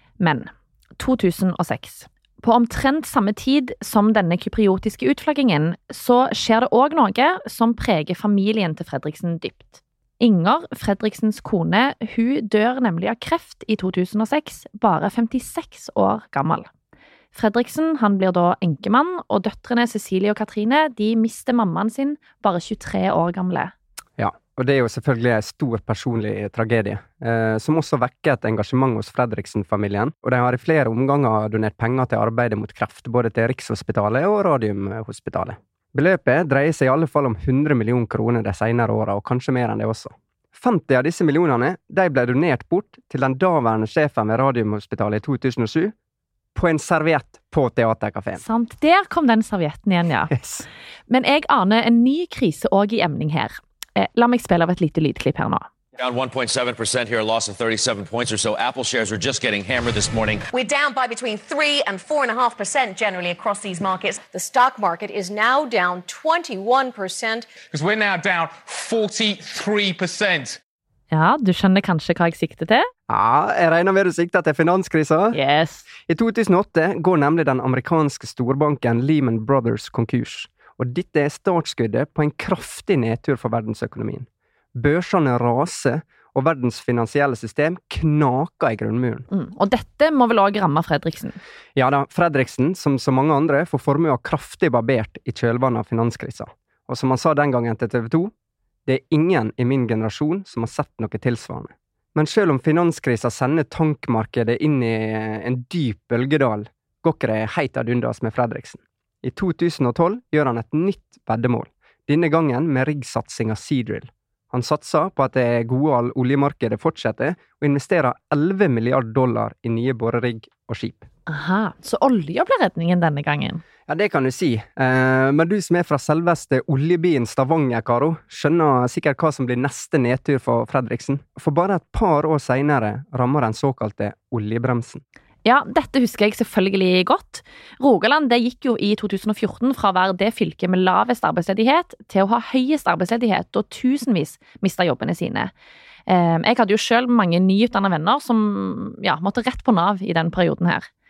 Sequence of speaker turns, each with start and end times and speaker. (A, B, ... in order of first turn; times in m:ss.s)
0:00.2-0:16.7 A
0:17.3-0:23.7 A
0:24.2-0:45.9 B
0:46.5-0:48.4 B
0:48.4-0:50.4 A
0:50.3-0:50.6 B
0:51.1-0:55.7 A
0:56.0-1:00.4 C
1:00.5-1:07.5 D
1:07.6-1:10.6 E
1:11.1-1:12.9 A
1:13.1-1:15.4 B
1:15.3-1:15.9 A
1:16.0-1:29.2 B
1:29.3-1:31.4 A
1:31.8-1:38.3 B
1:38.8-2:01.1 B
2:01.3-2:03.6 A
2:03.9-2:15.0 B
2:15.4-2:25.5 A
2:26.1-2:30.9 A